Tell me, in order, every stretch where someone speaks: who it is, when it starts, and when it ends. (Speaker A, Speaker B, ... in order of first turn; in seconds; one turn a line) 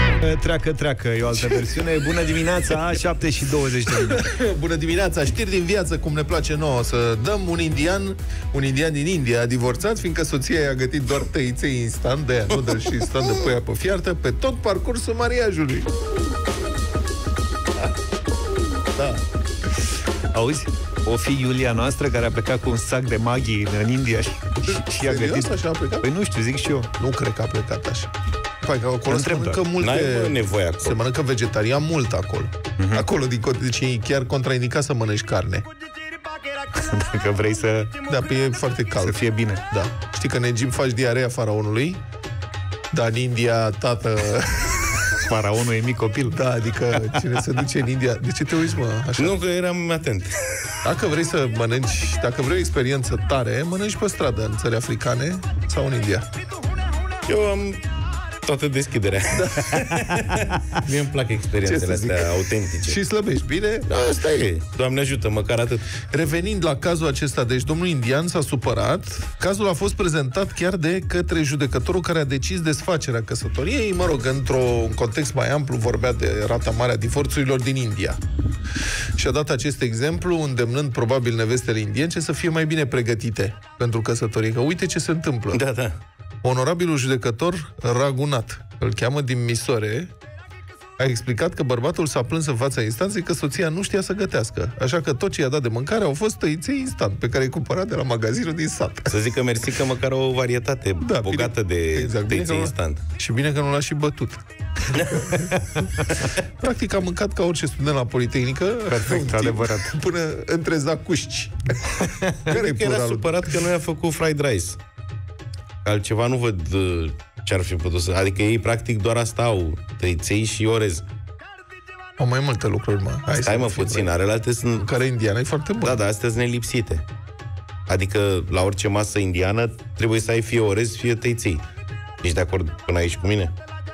Speaker A: 0.2-4.3
Speaker B: 3.9-15.9
Speaker C: 12.7-13.2
Speaker C: 19.0-19.2
Speaker A: 20.3-26.9
Speaker B: 24.7-26.1
Speaker B: 27.0-35.7
Speaker A: 29.1-29.6
Speaker C: 29.8-31.0
Speaker A: 32.8-33.1
Speaker A: 36.7-37.9
Speaker B: 38.1-42.0
Speaker A: 39.0-39.6
Speaker B: 42.9-45.1
Speaker A: 45.2-47.3
Speaker B: 46.2-49.4
Speaker C: 49.2-50.4
Speaker B: 50.8-56.3
Speaker C: 57.3-57.9
Speaker C: 58.4-63.0
Speaker B: 59.3-59.8
Speaker B: 61.6-63.9
Speaker C: 63.9-65.9
Speaker B: 66.1-78.2
Speaker B: 79.2-85.6
Speaker C: 85.5-86.0
Speaker B: 86.4-90.1
Speaker B: 91.0-99.1
Speaker C: 99.1-103.0
Speaker B: 101.0-104.4
Speaker C: 105.0-105.5
Speaker B: 105.1-105.5
Speaker B: 106.6-113.5
Speaker A: 108.9-110.0
Speaker A: 112.0-112.5
Speaker C: 112.5-114.8
Speaker C: 115.8-121.0
Speaker B: 122.2-124.1
Speaker C: 123.4-124.9
Speaker B: 124.8-126.0
Speaker C: 125.8-127.0
Speaker C: 127.9-131.6
Speaker C: 132.2-133.5